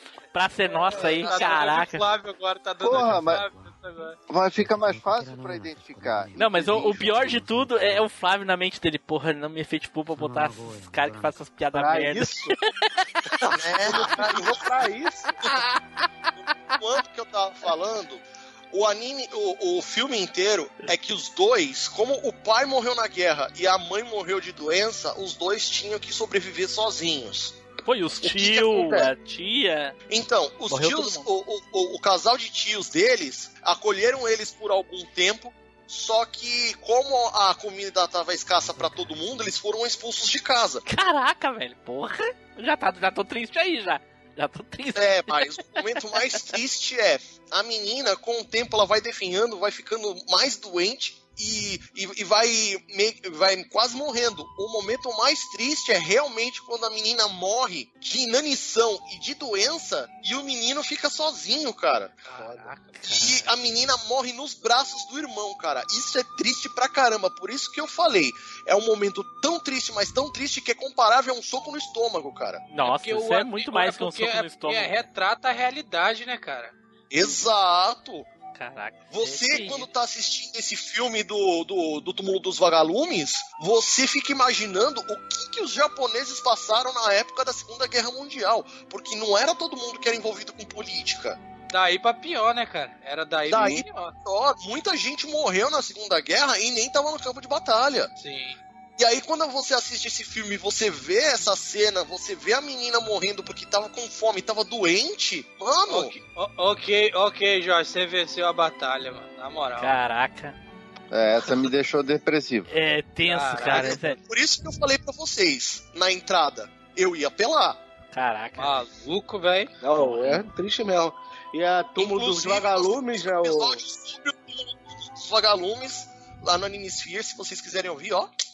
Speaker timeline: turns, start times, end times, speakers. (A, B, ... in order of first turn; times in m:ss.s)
0:00.3-0:02.0 A
0:01.0-0:01.6 B
0:01.0-0:04.2 C
0:02.8-0:03.4 D
0:04.3-0:07.1 D
0:06.4-0:12.3 A
0:11.7-0:12.5 E
0:13.5-0:14.7 B
0:13.8-0:15.3 E
0:16.7-0:18.2 B
0:18.7-0:27.6 B
0:27.8-0:29.9 A
0:28.2-0:28.7 B
0:28.7-0:29.1 E
0:30.1-0:40.8 B
0:30.7-0:31.2 A
0:40.9-0:45.3 A
0:45.0-1:02.1 B
1:02.2-1:03.3 C
1:02.3-1:02.7 E
1:03.0-1:03.4 A
1:03.2-1:12.6 B
1:12.7-1:15.0 A
1:12.8-1:16.7 C
1:17.1-1:18.3 B
1:18.5-1:19.9 A
1:19.1-1:31.4 B
1:31.7-1:34.1 C
1:33.5-1:38.1 B
1:38.2-1:38.6 C
1:39.0-1:46.1 B
1:45.9-1:50.0 C
1:49.8-1:50.5 A
1:51.1-1:52.7 D
1:52.7-1:54.2 A
1:53.2-1:54.0 C
1:53.6-1:57.8 B
1:58.1-1:58.7 A
1:58.6-1:59.7 C
1:59.8-2:03.8 E
2:00.0-2:00.4 A
2:02.0-2:08.3 B